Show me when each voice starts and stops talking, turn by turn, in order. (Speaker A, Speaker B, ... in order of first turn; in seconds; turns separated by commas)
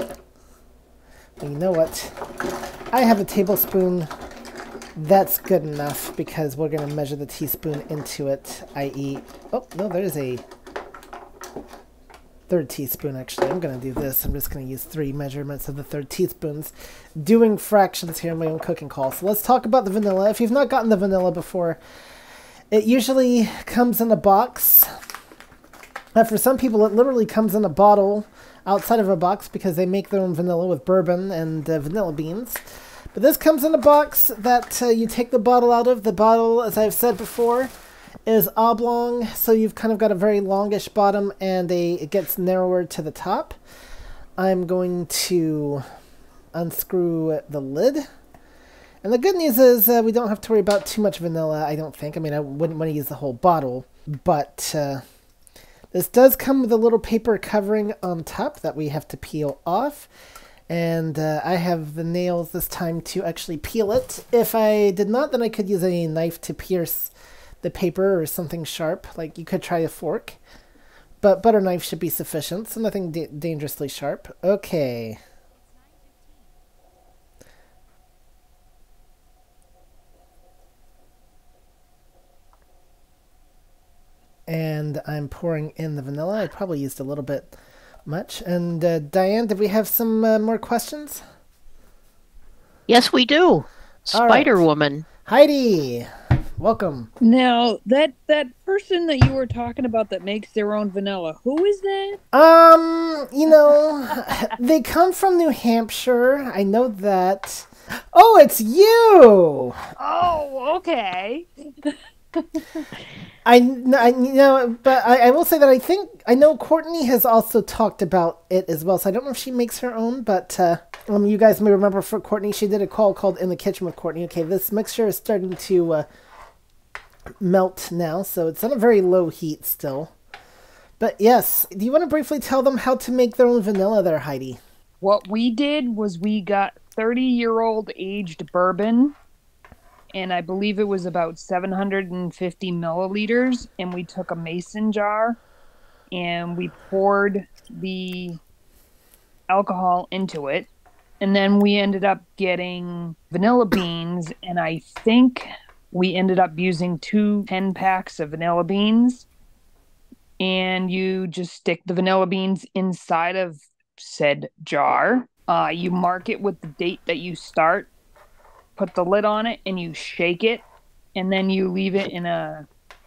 Speaker A: 1.4-2.1, Speaker A: 2.9-4.1, Speaker A: 5.0-10.4, Speaker A: 12.5-21.8, Speaker A: 22.7-24.9, Speaker A: 26.1-32.6, Speaker A: 33.1-37.7, Speaker A: 38.3-43.5, Speaker A: 44.4-45.8, Speaker A: 46.5-48.0, Speaker A: 49.0-55.0, Speaker A: 55.9-60.1, Speaker A: 60.7-70.4, Speaker A: 71.2-75.2, Speaker A: 84.5-87.5, Speaker A: 88.0-91.2, Speaker B: 92.9-95.0, Speaker A: 94.1-94.6, Speaker A: 95.2-97.1, Speaker C: 97.2-102.2, Speaker A: 102.3-109.8, Speaker C: 110.0-112.8, Speaker A: 113.4-126.0, Speaker A: 127.4-130.1, Speaker A: 131.0-134.6, Speaker C: 135.0-139.2, Speaker C: 140.1-145.4, Speaker C: 146.1-148.4, Speaker C: 149.5-150.7, Speaker C: 151.2-159.2, Speaker C: 160.4-167.9, Speaker C: 168.8-172.7